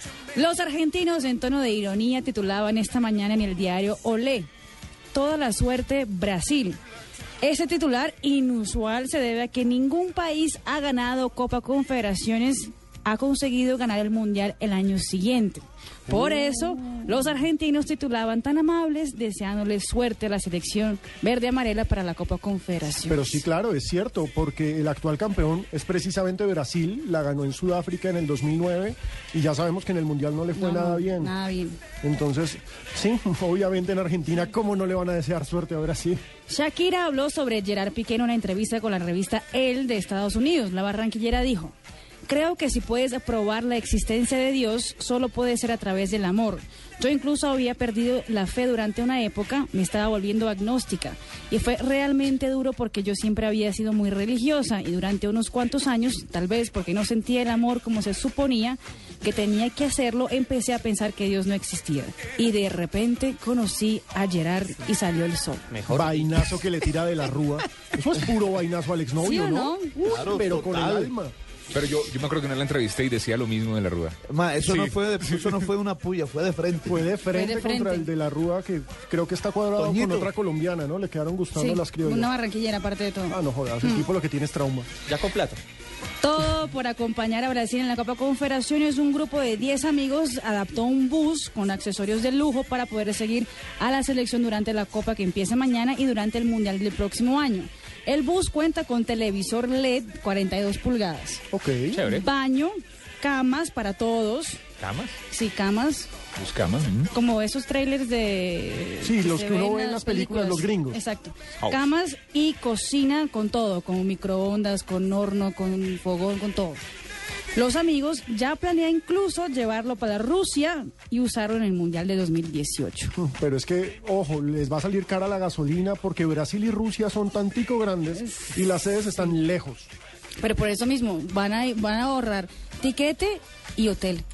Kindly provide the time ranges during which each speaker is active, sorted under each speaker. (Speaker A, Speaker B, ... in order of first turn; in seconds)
Speaker A: 0.3-4.5, 5.1-6.8, 7.4-23.4, 30.5-31.8, 36.5-41.7, 42.2-65.6, 69.2-70.0, 77.3-78.1, 81.5-84.1, 86.2-101.4, 102.0-104.6, 105.3-106.1, 107.1-116.8, 117.5-123.1, 128.3-128.6, 130.4-134.2
Speaker B: 16.1-17.0, 23.1-31.3, 32.0-36.2, 65.9-71.3, 76.8-82.3, 83.3-84.9, 101.5-102.0, 109.0-111.0, 123.2-129.9
Speaker C: 65.7-66.5, 70.0-71.1, 85.1-85.6
Speaker D: 70.4-71.1, 74.3-77.1, 79.8-80.3
Speaker E: 71.7-75.7, 101.9-102.2, 104.8-105.2, 106.4-107.1, 111.6-111.8